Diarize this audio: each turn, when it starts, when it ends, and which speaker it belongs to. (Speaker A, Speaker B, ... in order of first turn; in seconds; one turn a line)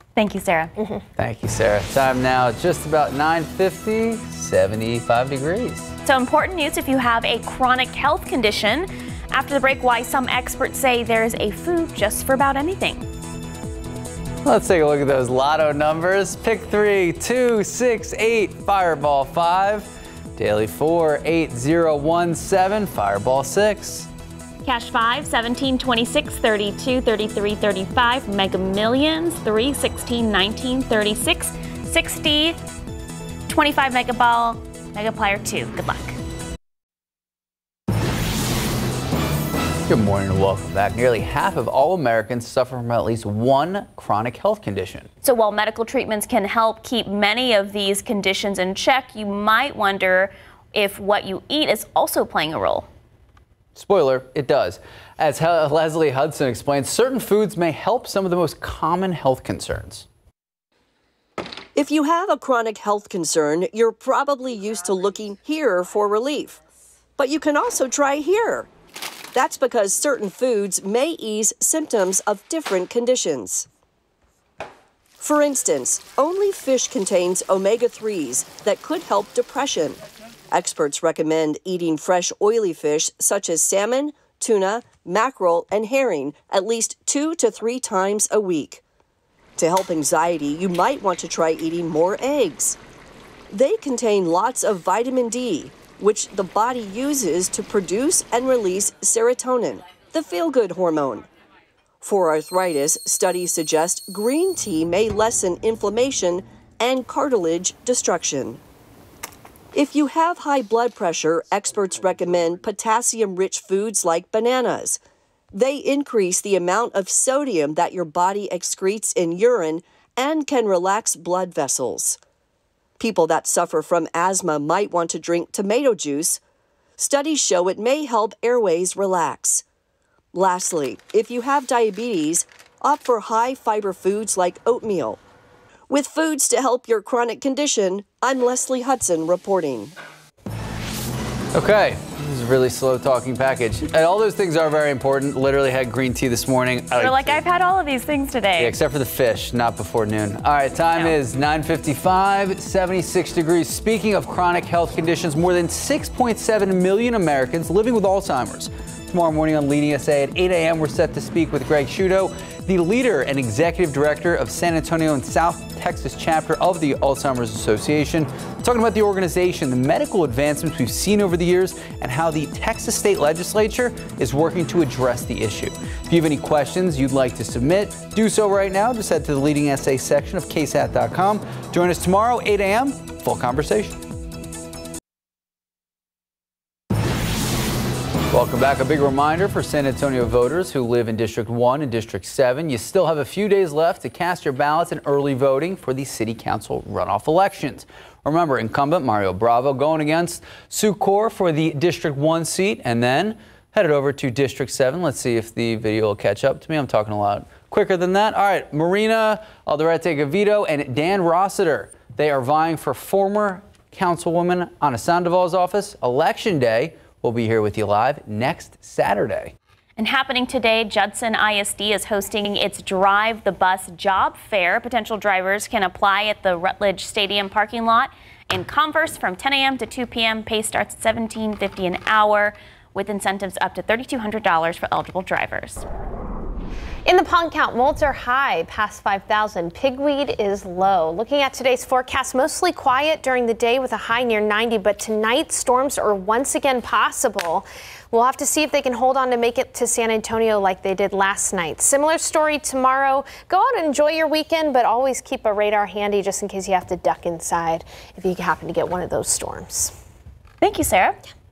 Speaker A: 0.1-0.7
Speaker B: 1.2-5.9
Speaker A: 6.0-13.0
Speaker B: 14.4-24.1
Speaker A: 24.6-32.6
Speaker A: 33.5-36.2
Speaker B: 39.9-45.1
Speaker A: 45.2-52.9
Speaker B: 53.7-60.0
Speaker C: 61.8-66.6
Speaker C: 67.2-68.7
Speaker C: 69.3-73.7
Speaker C: 75.2-80.0
Speaker C: 80.5-88.8
Speaker C: 89.6-92.8
Speaker C: 93.5-101.3
Speaker C: 102.0-108.6
Speaker C: 109.7-115.0
Speaker C: 115.5-122.2
Speaker C: 123.0-126.4
Speaker C: 127.0-129.6
Speaker C: 130.3-135.2
Speaker C: 135.9-139.9
Speaker B: 141.5-147.4
Speaker A: 146.9-148.7
Speaker B: 148.6-184.0
Speaker B: 188.3-219.5
Speaker A: 220.0-235.8
Speaker D: 237.0-259.9
Speaker A: 260.6-261.2